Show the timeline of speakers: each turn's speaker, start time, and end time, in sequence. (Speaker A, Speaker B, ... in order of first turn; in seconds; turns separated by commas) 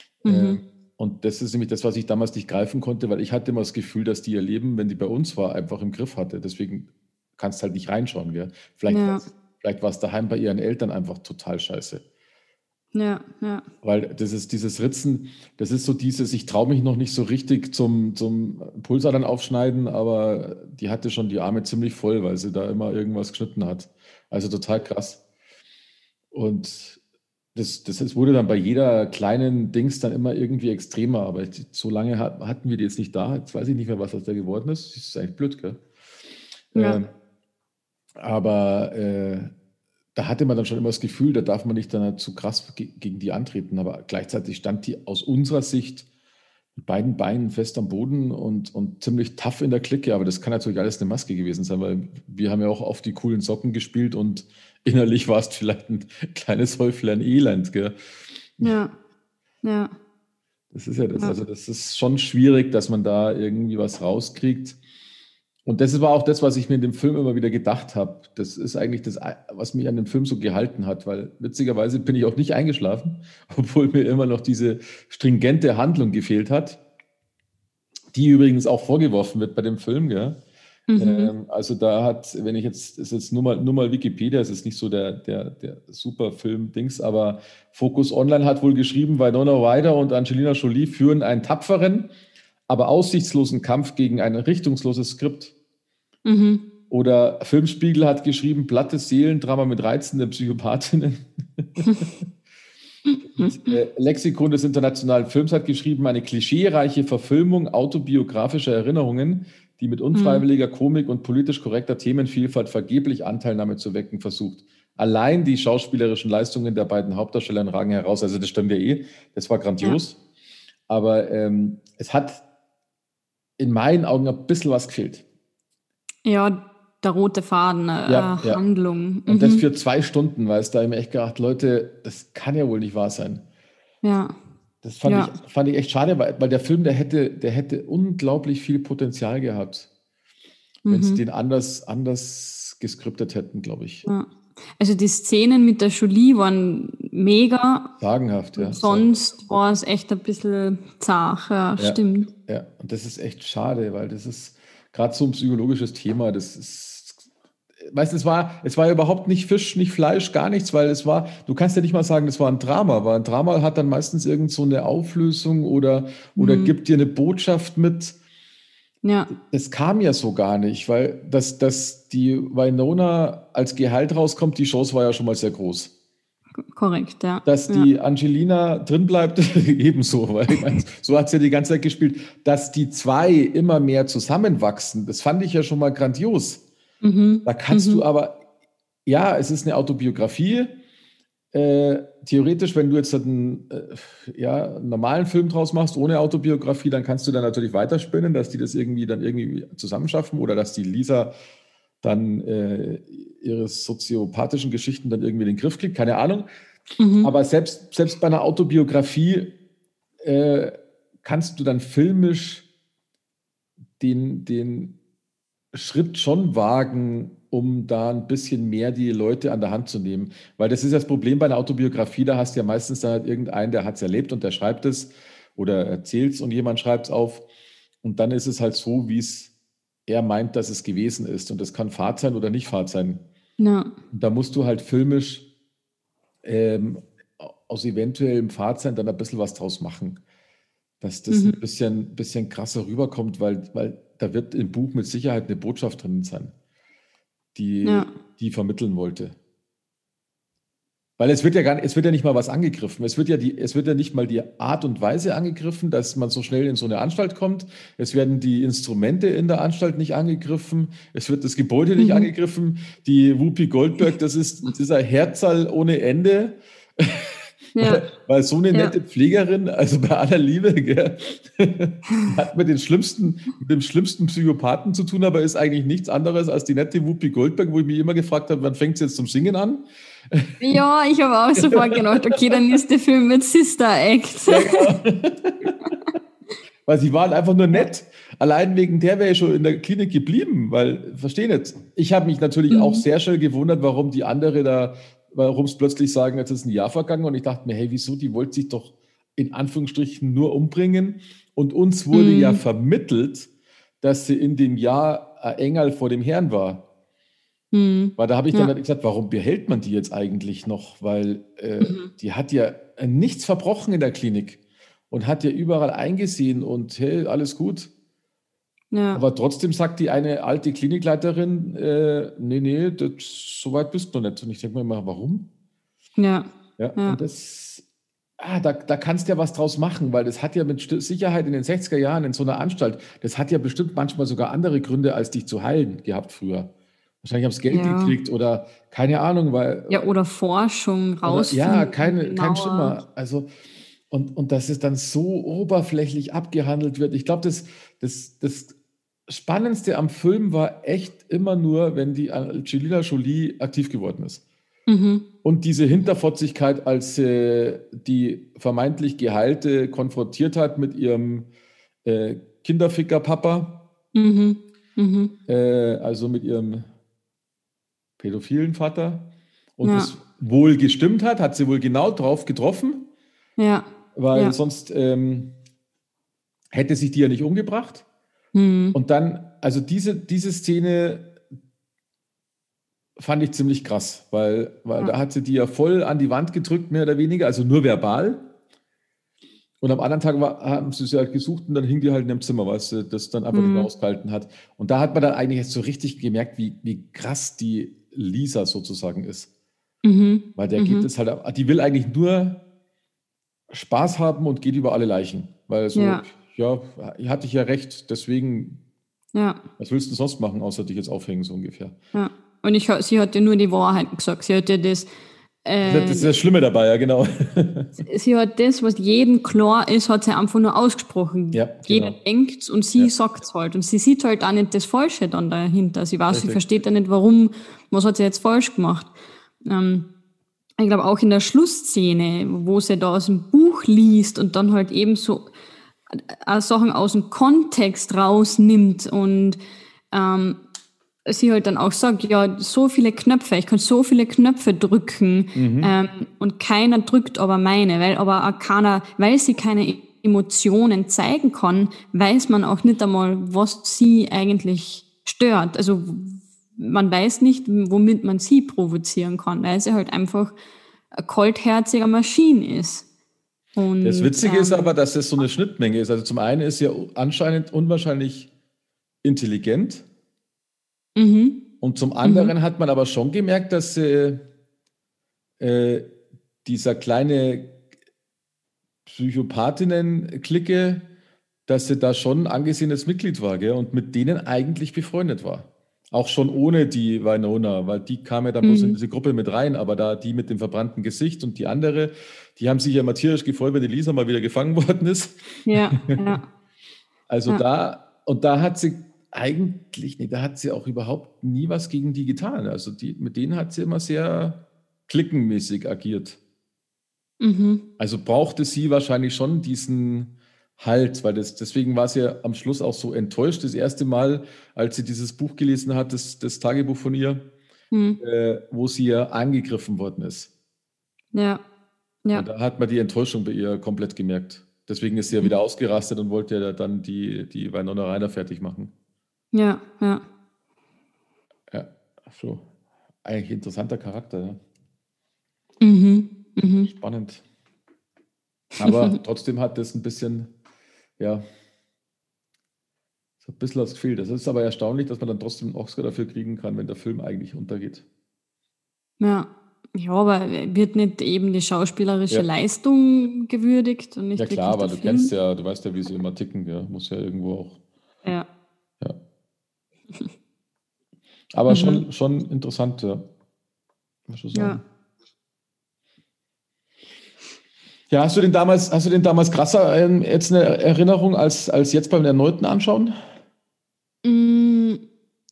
Speaker A: 0.2-12.0, Speaker B: 0.2-0.6, Speaker B: 8.9-9.2, Speaker B: 12.9-13.6, Speaker A: 13.8-25.2, Speaker A: 26.3-27.0, Speaker A: 27.5-35.8, Speaker A: 36.7-37.1, Speaker B: 36.7-37.0, Speaker A: 38.2-39.5, Speaker A: 40.1-46.0, Speaker A: 46.7-58.7, Speaker B: 58.6-58.9, Speaker B: 59.6-59.9, Speaker A: 60.7-64.8, Speaker A: 65.6-76.8, Speaker A: 78.1-80.4, Speaker B: 80.9-81.3, Speaker A: 81.0-92.1, Speaker A: 92.7-95.5, Speaker B: 96.2-96.6, Speaker A: 96.9-102.1, Speaker B: 103.0-103.7, Speaker A: 103.3-120.2, Speaker B: 110.1-110.4, Speaker A: 120.9-122.4, Speaker A: 123.6-125.2, Speaker B: 126.2-129.6, Speaker A: 128.1-128.6, Speaker A: 129.3-133.4, Speaker B: 134.0-134.3, Speaker A: 134.8-139.9, Speaker B: 135.0-135.3, Speaker B: 140.8-141.2, Speaker A: 140.9-144.1, Speaker B: 144.0-147.9, Speaker A: 148.0-149.1, Speaker B: 148.6-152.3, Speaker A: 151.8-157.2, Speaker A: 157.8-168.2, Speaker B: 166.3-166.7, Speaker B: 169.0-169.3, Speaker A: 169.3-175.9, Speaker B: 176.7-177.9, Speaker A: 177.4-186.6, Speaker B: 187.0-188.0, Speaker A: 187.4-188.4, Speaker A: 189.1-190.8, Speaker A: 191.5-201.3, Speaker A: 202.0-206.5, Speaker B: 207.0-207.3, Speaker A: 207.2-209.5, Speaker A: 210.2-212.6, Speaker A: 214.0-214.9, Speaker A: 215.7-227.4, Speaker A: 228.0-229.5, Speaker A: 230.1-233.2, Speaker B: 233.6-233.9, Speaker A: 234.1-235.4, Speaker A: 236.4-240.2, Speaker A: 241.0-246.5, Speaker B: 241.3-241.6, Speaker A: 247.5-249.3, Speaker B: 247.8-248.1, Speaker A: 251.2-280.8, Speaker B: 262.0-262.3, Speaker B: 267.7-268.1, Speaker B: 280.6-284.9, Speaker A: 281.6-282.6, Speaker A: 284.5-285.7, Speaker A: 286.8-303.5, Speaker B: 292.7-293.0, Speaker B: 302.1-302.6, Speaker A: 304.0-306.8, Speaker B: 307.7-308.7, Speaker A: 308.2-314.6, Speaker B: 311.8-312.1, Speaker A: 315.1-317.9, Speaker B: 318.9-319.2, Speaker A: 319.1-325.5, Speaker B: 326.2-326.4, Speaker A: 326.8-327.8, Speaker A: 328.4-336.7, Speaker A: 337.2-340.1, Speaker B: 337.7-338.2, Speaker B: 339.9-343.0, Speaker A: 341.2-343.5, Speaker A: 344.1-348.7, Speaker A: 349.3-354.4, Speaker B: 354.9-355.2, Speaker A: 355.4-361.5, Speaker A: 362.0-363.8, Speaker B: 364.1-365.3, Speaker A: 365.5-366.9, Speaker A: 368.2-373.1, Speaker B: 369.8-370.1, Speaker B: 373.6-374.6, Speaker A: 374.1-375.5, Speaker A: 376.7-378.0, Speaker B: 378.5-379.0, Speaker A: 378.9-381.3, Speaker A: 383.2-388.4, Speaker A: 389.8-399.5, Speaker B: 393.5-393.9, Speaker B: 400.0-401.1, Speaker A: 400.6-402.6, Speaker A: 403.7-408.8, Speaker B: 405.9-406.2, Speaker B: 409.3-409.6, Speaker A: 409.8-412.0, Speaker B: 412.1-415.1, Speaker B: 415.6-416.3, Speaker A: 415.8-417.9, Speaker B: 418.0-429.1, Speaker A: 421.5-422.1, Speaker A: 426.3-426.8, Speaker B: 429.6-430.1, Speaker B: 430.8-435.5, Speaker B: 436.1-439.6, Speaker B: 440.1-440.6, Speaker B: 441.3-460.6, Speaker A: 445.5-445.9, Speaker B: 461.1-463.0, Speaker B: 463.8-464.9, Speaker A: 464.0-468.5, Speaker A: 469.2-470.0, Speaker B: 471.1-471.6, Speaker A: 471.8-474.4, Speaker B: 472.2-472.5, Speaker A: 475.6-476.1, Speaker A: 476.6-477.8, Speaker A: 479.1-481.1, Speaker A: 481.7-496.4, Speaker B: 488.6-488.9, Speaker B: 495.6-496.4, Speaker A: 497.3-506.4, Speaker B: 507.4-507.8, Speaker A: 508.0-517.4, Speaker B: 517.9-518.2, Speaker A: 518.2-520.5, Speaker B: 521.3-521.6, Speaker A: 522.3-528.9, Speaker B: 529.5-530.2, Speaker A: 531.7-532.6, Speaker A: 533.2-534.6, Speaker B: 535.8-536.9, Speaker A: 536.9-537.4, Speaker B: 538.8-539.2, Speaker A: 538.8-540.5, Speaker A: 541.2-541.4, Speaker A: 543.4-548.0, Speaker B: 549.2-555.3, Speaker A: 554.4-557.8, Speaker A: 561.5-563.2, Speaker B: 561.7-562.0, Speaker A: 564.3-564.8, Speaker B: 564.5-564.8, Speaker A: 568.1-573.1, Speaker B: 574.2-575.0